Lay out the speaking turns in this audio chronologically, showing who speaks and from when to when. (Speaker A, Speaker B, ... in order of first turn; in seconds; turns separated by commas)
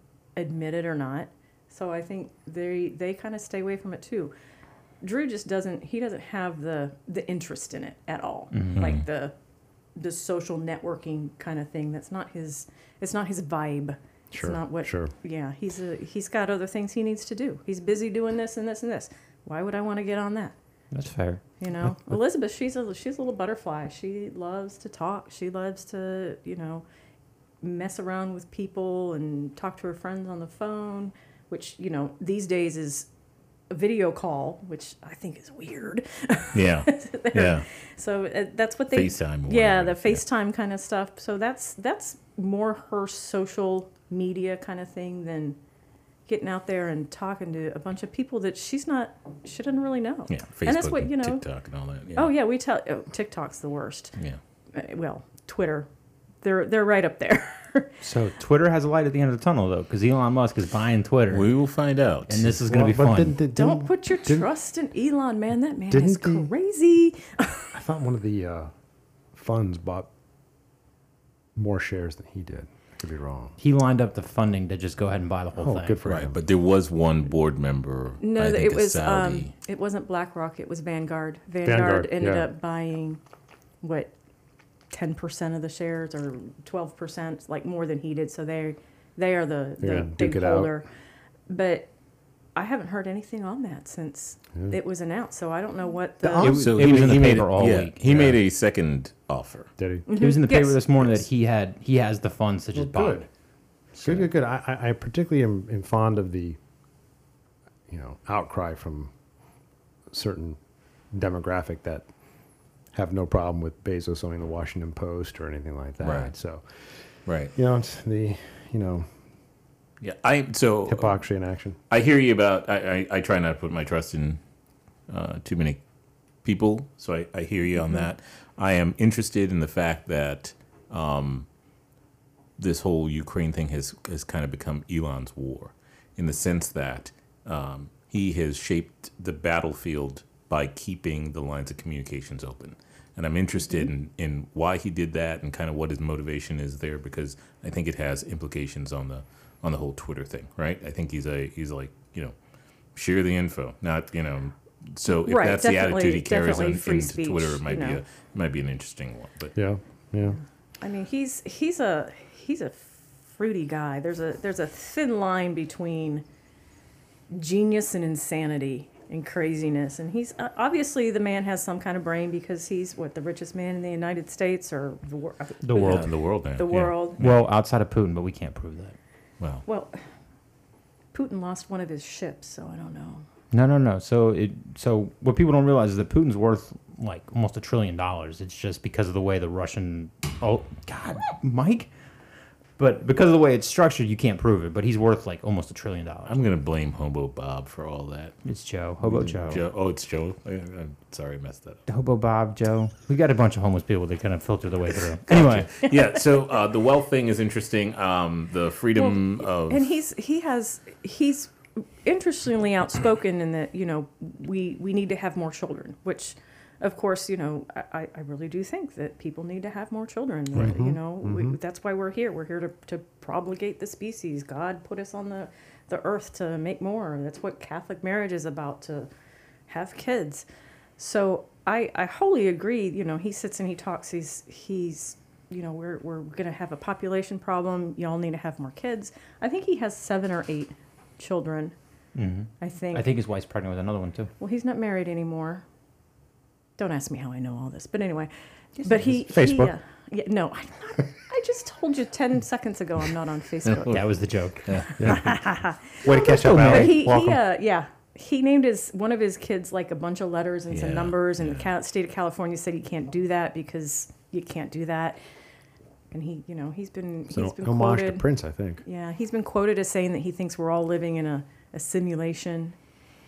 Speaker A: 0.3-4.3, Speaker A: 5.0-9.3, Speaker B: 8.5-8.9, Speaker C: 8.8-9.0, Speaker A: 10.0-20.6, Speaker D: 14.3-15.1, Speaker B: 20.9-21.4, Speaker A: 21.6-26.9, Speaker D: 21.8-22.2, Speaker A: 27.6-33.1, Speaker A: 33.7-45.6, Speaker C: 36.5-37.7, Speaker C: 38.9-40.2, Speaker A: 46.3-51.5, Speaker C: 50.3-52.3, Speaker A: 52.1-54.2, Speaker A: 54.7-55.9, Speaker A: 56.4-57.9, Speaker D: 58.0-58.4, Speaker B: 58.4-61.5, Speaker C: 61.3-62.5, Speaker B: 62.3-63.4, Speaker D: 62.7-64.5, Speaker A: 63.5-67.7, Speaker D: 65.9-66.5, Speaker D: 67.7-68.7, Speaker D: 69.3-70.1, Speaker D: 71.5-73.5, Speaker B: 73.6-76.0, Speaker D: 75.6-76.3, Speaker C: 76.0-79.5, Speaker A: 78.2-83.2, Speaker D: 81.7-82.5, Speaker A: 83.8-84.1, Speaker A: 84.9-90.9, Speaker D: 89.8-90.7, Speaker A: 91.5-91.9, Speaker A: 92.5-96.6, Speaker B: 96.3-98.0, Speaker C: 96.4-99.7, Speaker D: 98.1-98.3, Speaker D: 99.8-100.0, Speaker A: 100.1-100.8, Speaker B: 100.2-103.2, Speaker D: 102.8-103.3, Speaker D: 103.9-106.6, Speaker B: 103.9-104.2, Speaker D: 107.9-109.1, Speaker D: 110.1-110.6, Speaker D: 111.1-112.1, Speaker D: 112.9-119.1, Speaker C: 116.0-116.3, Speaker C: 117.2-117.5, Speaker C: 120.0-121.3, Speaker D: 120.9-121.8, Speaker C: 121.9-124.4, Speaker C: 125.1-125.8, Speaker C: 126.4-131.5, Speaker C: 132.6-152.4, Speaker C: 152.9-159.6, Speaker A: 155.1-158.0, Speaker D: 159.6-160.4, Speaker A: 160.8-166.2, Speaker A: 167.3-177.2, Speaker B: 175.6-176.1, Speaker C: 175.7-177.4, Speaker B: 177.2-178.9, Speaker A: 179.7-180.0, Speaker A: 181.1-183.2, Speaker B: 183.5-191.9, Speaker B: 192.8-196.3, Speaker C: 196.3-198.4, Speaker B: 198.4-199.6, Speaker C: 199.0-201.8, Speaker B: 201.9-205.7, Speaker C: 205.3-209.8, Speaker A: 209.0-229.1, Speaker D: 220.5-221.6, Speaker A: 229.7-230.5, Speaker A: 231.0-241.7, Speaker B: 242.2-244.3, Speaker A: 242.6-243.1, Speaker A: 244.4-245.6, Speaker A: 246.8-254.0, Speaker D: 249.0-249.8, Speaker B: 253.8-255.1, Speaker C: 254.6-255.3, Speaker D: 255.0-255.5, Speaker A: 255.0-265.2, Speaker D: 256.0-257.4, Speaker B: 256.2-257.0, Speaker C: 260.7-261.7, Speaker A: 266.1-268.2, Speaker D: 267.3-268.8, Speaker A: 268.8-272.8